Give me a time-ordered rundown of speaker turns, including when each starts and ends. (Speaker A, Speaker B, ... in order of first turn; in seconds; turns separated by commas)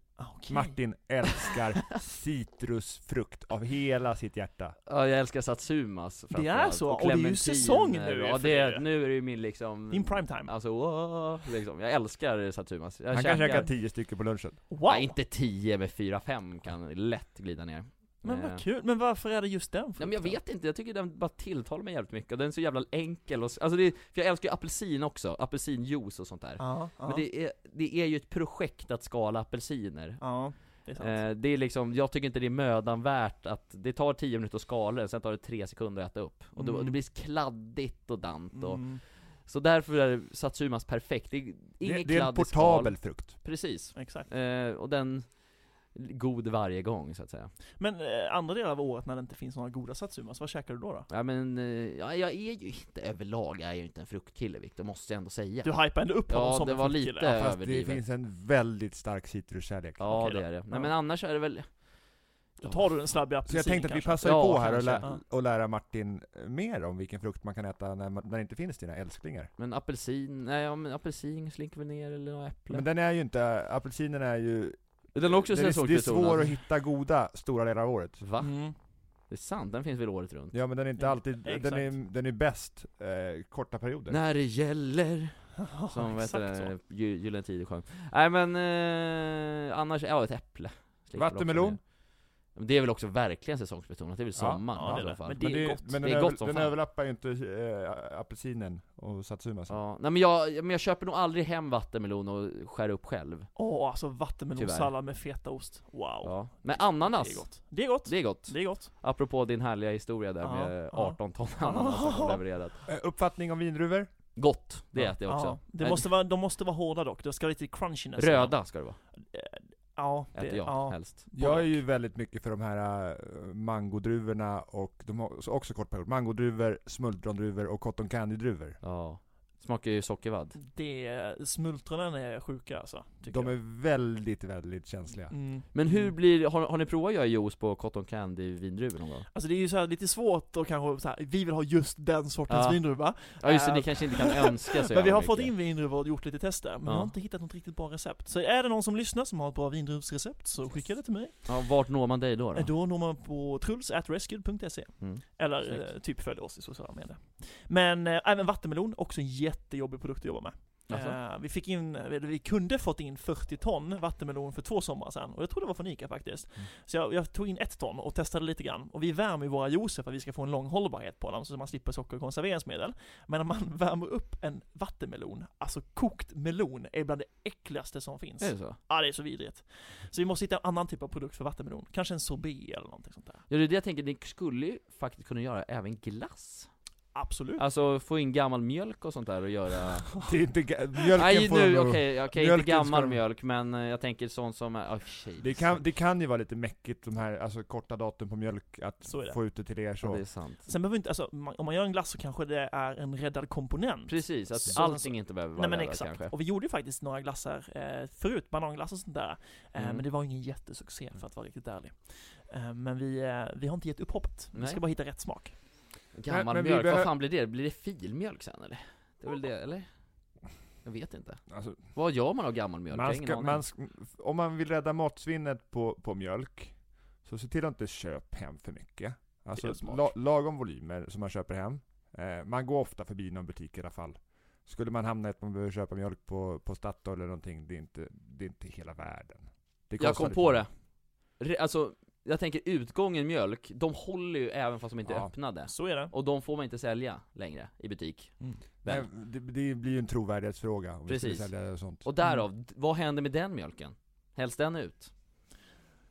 Speaker A: 0.2-0.8, Speaker B: 0.5-4.8, Speaker C: 4.9-13.7, Speaker A: 6.3-8.8, Speaker A: 9.9-10.5, Speaker B: 13.1-14.6, Speaker A: 14.7-15.2, Speaker C: 14.8-18.6, Speaker A: 18.2-20.4, Speaker C: 20.0-30.3, Speaker A: 26.6-27.2, Speaker A: 30.2-31.2, Speaker C: 31.0-45.4, Speaker A: 36.5-37.0, Speaker A: 38.5-39.0, Speaker B: 41.8-43.4, Speaker A: 43.9-44.3, Speaker C: 45.9-47.5, Speaker A: 47.8-51.1, Speaker C: 51.1-58.0, Speaker A: 55.6-57.3, Speaker B: 57.3-60.1, Speaker C: 60.0-61.8, Speaker A: 60.1-60.9, Speaker A: 62.6-65.2, Speaker C: 62.6-62.9, Speaker B: 63.5-69.5, Speaker C: 64.2-65.1, Speaker C: 69.6-72.8, Speaker B: 72.7-78.2, Speaker C: 75.1-76.6, Speaker C: 78.2-78.6, Speaker A: 78.4-78.7, Speaker C: 79.3-80.5, Speaker B: 80.5-84.2, Speaker A: 81.0-81.9, Speaker C: 84.1-91.9, Speaker A: 85.6-86.7, Speaker B: 91.2-91.8, Speaker C: 92.5-96.7, Speaker B: 94.4-99.8, Speaker A: 94.7-95.9, Speaker C: 99.7-103.5, Speaker A: 103.5-108.9, Speaker C: 104.6-104.9, Speaker C: 106.2-112.8, Speaker A: 110.4-112.4, Speaker B: 112.9-114.1, Speaker C: 114.3-116.1, Speaker A: 115.2-121.8, Speaker C: 118.2-119.0, Speaker C: 120.3-121.2, Speaker B: 121.3-128.8, Speaker C: 128.8-130.6, Speaker A: 130.6-133.5, Speaker B: 133.3-135.3, Speaker A: 135.3-136.1, Speaker C: 135.7-139.3, Speaker A: 139.3-151.5, Speaker C: 142.5-145.5, Speaker C: 146.8-147.1, Speaker C: 151.4-152.7, Speaker A: 152.5-183.4, Speaker C: 155.0-155.9, Speaker C: 160.9-161.2, Speaker C: 178.4-178.8, Speaker C: 183.5-186.7, Speaker A: 187.1-187.6, Speaker C: 187.6-190.2, Speaker B: 190.2-193.2, Speaker C: 191.1-195.8, Speaker B: 195.4-200.2, Speaker A: 199.1-199.4, Speaker C: 200.0-200.7, Speaker A: 200.7-215.6, Speaker C: 204.1-206.3, Speaker C: 209.8-210.0, Speaker C: 214.5-214.8, Speaker C: 216.1-219.9, Speaker B: 216.3-217.1, Speaker C: 220.8-223.6, Speaker B: 221.5-221.8, Speaker B: 222.9-240.6, Speaker A: 229.6-230.1, Speaker C: 240.0-240.7, Speaker C: 241.4-249.1, Speaker B: 245.1-245.3, Speaker A: 245.7-246.1, Speaker B: 248.8-252.0, Speaker C: 251.1-255.1